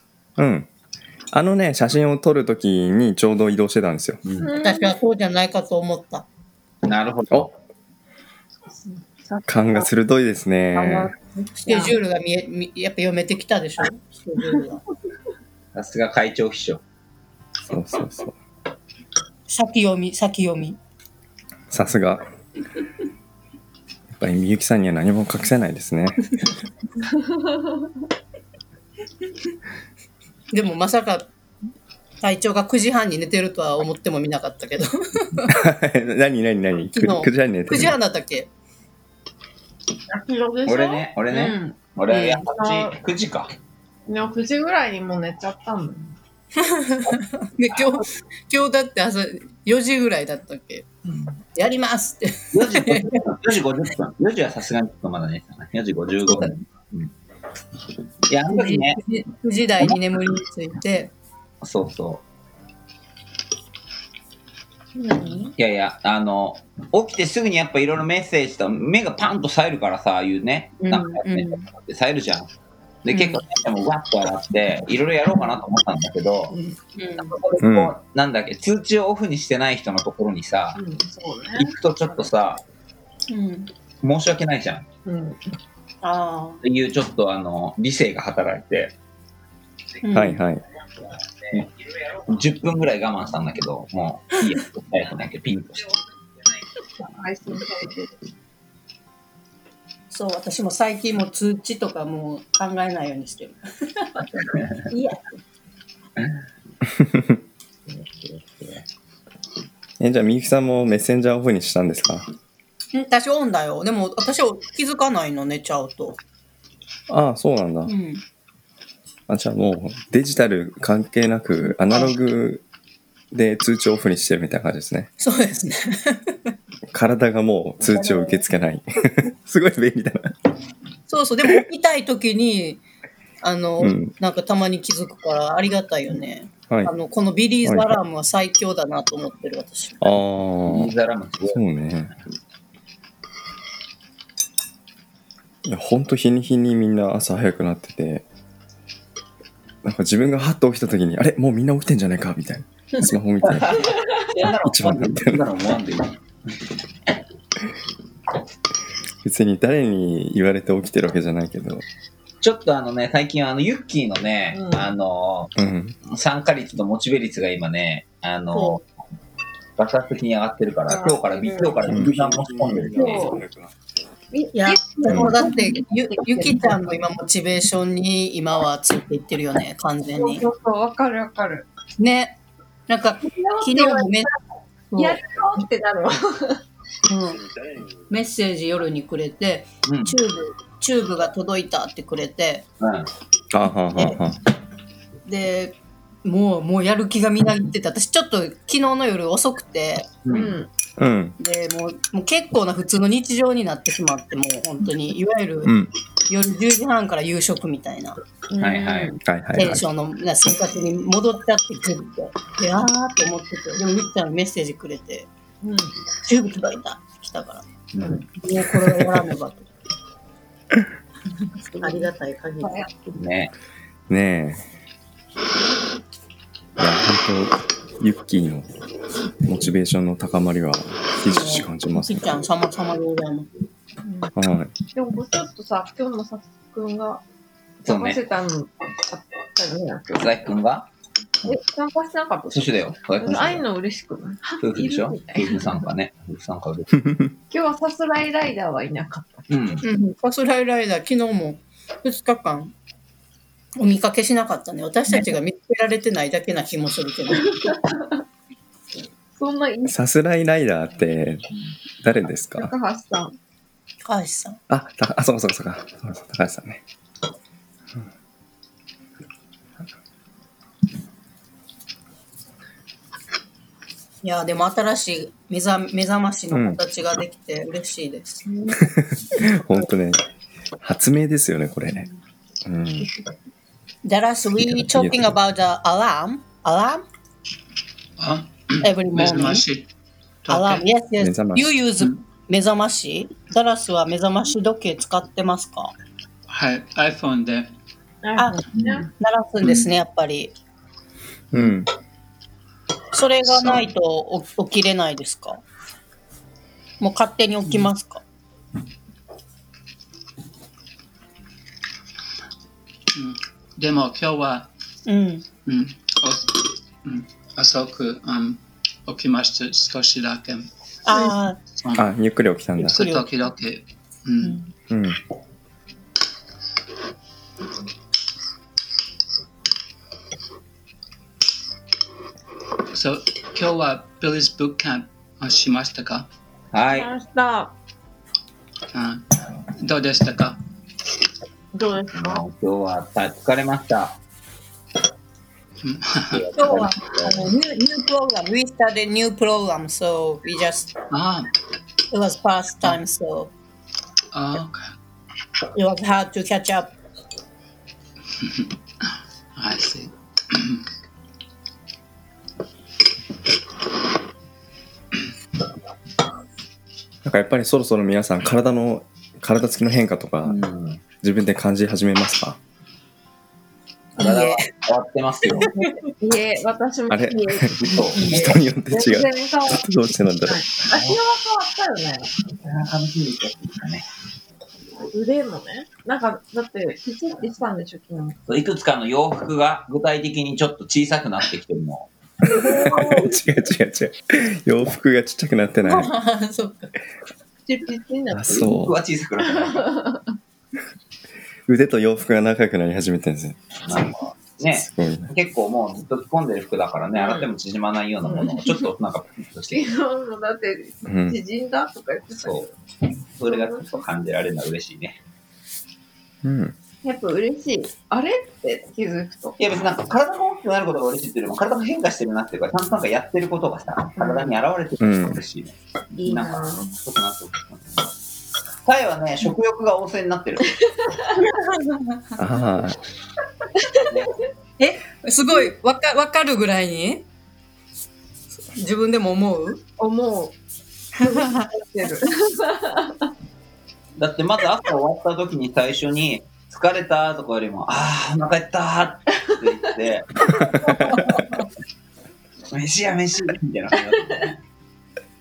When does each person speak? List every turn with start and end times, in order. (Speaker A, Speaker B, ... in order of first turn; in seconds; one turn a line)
Speaker A: 0.4-0.7
Speaker A: 1.3-4.2
Speaker B: 4.2-4.5
Speaker C: 4.4-5.0
Speaker D: 4.6-6.3
Speaker B: 6.8-7.5
Speaker C: 8.7-9.9
Speaker A: 9.5-11.1
Speaker C: 10.8-12.0
Speaker D: 11.6-14.8
Speaker B: 15.7-16.8
Speaker A: 17.7-18.4
Speaker D: 19.5-20.8
Speaker A: 21.7-22.3
Speaker A: 24.1-26.3
Speaker D: 30.5-31.3
Speaker D: 32.2-35.6
Speaker A: 35.5-38.0
Speaker D: 36.9-38.5
Speaker C: 40.1-43.0
Speaker B: 40.7-43.5
Speaker C: 44.1-46.2
Speaker D: 46.6-50.9
Speaker B: 51.1-51.4
Speaker D: 51.5-53.2
Speaker B: 52.5-57.1
Speaker B: 58.3-59.0
Speaker D: 58.5-61.1
Speaker B: 61.6-62.2
Speaker C: 65.0-65.5
Speaker B: 65.6-72.5
Speaker D: 70.8-71.7
Speaker B: 73.0-76.5
Speaker D: 73.1-73.4
Speaker C: 76.5-76.8
Speaker D: 77.0-77.4
Speaker B: 77.3-80.8
Speaker A: 77.6-78.0
Speaker C: 80.8-81.8
Speaker B: 81.6-82.6
Speaker D: 83.3-83.7
Speaker B: 84.0-84.9
Speaker C: 85.0-85.5
Speaker D: 86.0-86.6
Speaker B: 86.6-89.0
Speaker D: 90.0-90.4
Speaker A: 90.1-90.6
Speaker B: 92.3-95.9
Speaker C: 97.0-98.2
Speaker D: 100.1-104.2
Speaker D: 104.9-105.2
Speaker A: 107.0-107.3
Speaker B: 107.9-108.8
Speaker A: 110.0-112.3
Speaker D: 112.9-116.2
Speaker A: 117.1-117.9
Speaker D: 117.9-118.2
Speaker A: 119.3-122.6
Speaker D: 121.7-122.1
Speaker A: 123.3-125.1
Speaker D: 125.2-126.4
Speaker A: 126.9-130.3
Speaker D: 127.9-128.4
Speaker D: 131.1-132.8
Speaker D: 133.4-140.2
Speaker A: 133.8-134.1
Speaker A: 137.6-137.9
Speaker A: 140.0-140.9
Speaker B: 140.7-141.6
Speaker A: 141.5-142.1
Speaker A: 145.7-148.3
Speaker A: 149.8-153.9
Speaker B: 153.4-156.2
Speaker A: 154.6-155.4
Speaker A: 159.2-161.8
Speaker B: 162.4-165.5
Speaker C: 164.5-164.9
Speaker A: 165.6-166.0
Speaker B: 166.1-168.8
Speaker D: 168.5-168.8
Speaker B: 169.8-173.3
Speaker C: 170.9-172.2
Speaker A: 171.9-173.7
Speaker C: 172.9-173.4
Speaker C: 174.3-176.8
Speaker D: 174.5-180.5
Speaker A: 175.1-175.3
Speaker C: 180.1-181.7
Speaker D: 182.0-184.3
Speaker C: 183.2-184.3
Speaker D: 184.9-185.2
Speaker C: 185.0-186.6
Speaker D: 187.1-187.4
Speaker D: 188.1-192.7
Speaker B: 189.9-190.1
Speaker B: 192.8-193.1
Speaker A: 193.5-194.4
Speaker D: 195.3-200.1
Speaker B: 200.3-200.6
Speaker C: 200.3-200.7
Speaker A: 201.0-201.4
Speaker D: 201.4-205.7
Speaker A: 205.7-205.9
Speaker D: 206.3-208.2
Speaker C: 208.5-209.2
Speaker B: 208.6-209.2
Speaker A: 209.2-209.8
Speaker D: 209.5-215.3
Speaker C: 215.6-216.0
Speaker D: 216.2-217.7
Speaker B: 217.9-218.2
Speaker D: 218.3-219.7
Speaker C: 221.4-223.2
Speaker D: 221.8-222.8
Speaker B: 223.1-223.5
Speaker A: 224.1-224.7
Speaker A: 226.8-228.7
Speaker A: 229.4-232.4
Speaker D: 231.3-233.5
Speaker C: 234.0-234.3
Speaker A: 234.3-234.7
Speaker C: 234.9-237.2
Speaker C: 237.8-240.4
Speaker B: 237.9-238.2
Speaker B: 240.1-240.9
Speaker C: 241.4-245.8
Speaker B: 242.5-243.7
Speaker B: 244.6-247.0
Speaker C: 247.5-249.5
Speaker B: 249.5-249.8
Speaker D: 249.8-252.7
Speaker D: 253.8-257.6
Speaker C: 257.4-258.2
Speaker C: 259.4-260.0
Speaker A: 259.9-261.5
Speaker A: 262.0-262.7
Speaker C: 262.6-263.4
Speaker D: 264.0-264.6
Speaker A: 264.7-266.8
Speaker D: 274.2-278.9
Speaker A: 276.5-276.8
Speaker A: 279.0-280.2
Speaker A: 280.8-282.1
Speaker A: 282.6-283.1
Speaker D: 284.0-287.0
Speaker A: 284.6-285.3
Speaker E: 288.2-289.9
Speaker D: 288.8-289.6
Speaker E: 290.4-290.9
Speaker D: 290.5-295.9
Speaker A: 291.2-291.8
Speaker E: 296.5-297.7
Speaker C: 298.2-299.1
Speaker D: 298.4-300.6
Speaker A: 301.5-301.9
Speaker D: 303.1-305.6
Speaker D: 307.0-308.2
Speaker E: 313.1-314.7
Speaker D: 315.1-315.4
Speaker E: 315.7-320.7
Speaker D: 321.1-321.6
Speaker E: 321.8-322.1
Speaker A: 322.0-323.0
Speaker D: 322.8-323.3
Speaker E: 322.8-324.6
Speaker A: 324.9-325.2
Speaker E: 332.9-336.3
Speaker B: 336.7-337.1
Speaker C: 336.9-337.8
Speaker E: 338.9-340.6
Speaker C: 341.7-342.4
Speaker B: 342.1-344.2
Speaker E: 345.8-346.5
Speaker B: 346.3-347.5
Speaker D: 346.6-350.9
Speaker E: 351.1-351.5
Speaker D: 352.1-353.5
Speaker E: 354.3-354.9
Speaker D: 355.8-356.9
Speaker E: 358.4-358.7
Speaker E: 359.6-360.8
Speaker A: 367.2-370.6
Speaker B: 370.5-371.0
Speaker A: 371.2-372.6
Speaker D: 374.2-374.7
Speaker B: 374.2-375.7
Speaker D: 375.5-376.1
Speaker C: 376.2-379.9
Speaker A: 377.1-380.6
Speaker B: 377.7-378.3
Speaker D: 378.1-378.6
Speaker C: 380.4-382.3
Speaker B: 380.9-381.2
Speaker B: 382.6-384.1
Speaker C: 385.1-388.4
Speaker B: 388.5-392.1
Speaker C: 392.4-393.4
Speaker A: 392.6-396.1
Speaker D: 395.8-396.9
Speaker C: 397.7-398.7
Speaker A: 398.3-398.9
Speaker B: 398.5-399.9
Speaker C: 399.4-400.4
Speaker A: 401.7-403.6
Speaker B: 403.9-409.9
Speaker A: 404.7-405.3
Speaker C: 407.2-407.5
Speaker C: 408.2-408.9
Speaker C: 409.7-412.8
Speaker A: 411.1-411.4
Speaker B: 412.4-412.7
Speaker B: 413.4-415.2
Speaker C: 413.4-414.1
Speaker A: 416.4-416.8
Speaker C: 417.0-419.6
Speaker B: 419.6-428.1
Speaker C: 424.2-424.6
Speaker A: 425.0-425.4
Speaker C: 426.1-427.0
Speaker B: 428.9-430.7
Speaker D: 431.4-432.2
Speaker A: 432.4-433.0
Speaker C: 433.8-434.1
Speaker D: 434.8-437.3
Speaker D: 438.8-439.8
Speaker C: 440.0-440.6
Speaker D: 441.2-441.7
Speaker C: 441.2-443.3
Speaker B: 444.2-450.7
Speaker A: 450.6-450.9
Speaker D: 451.1-451.4
Speaker B: 452.7-454.6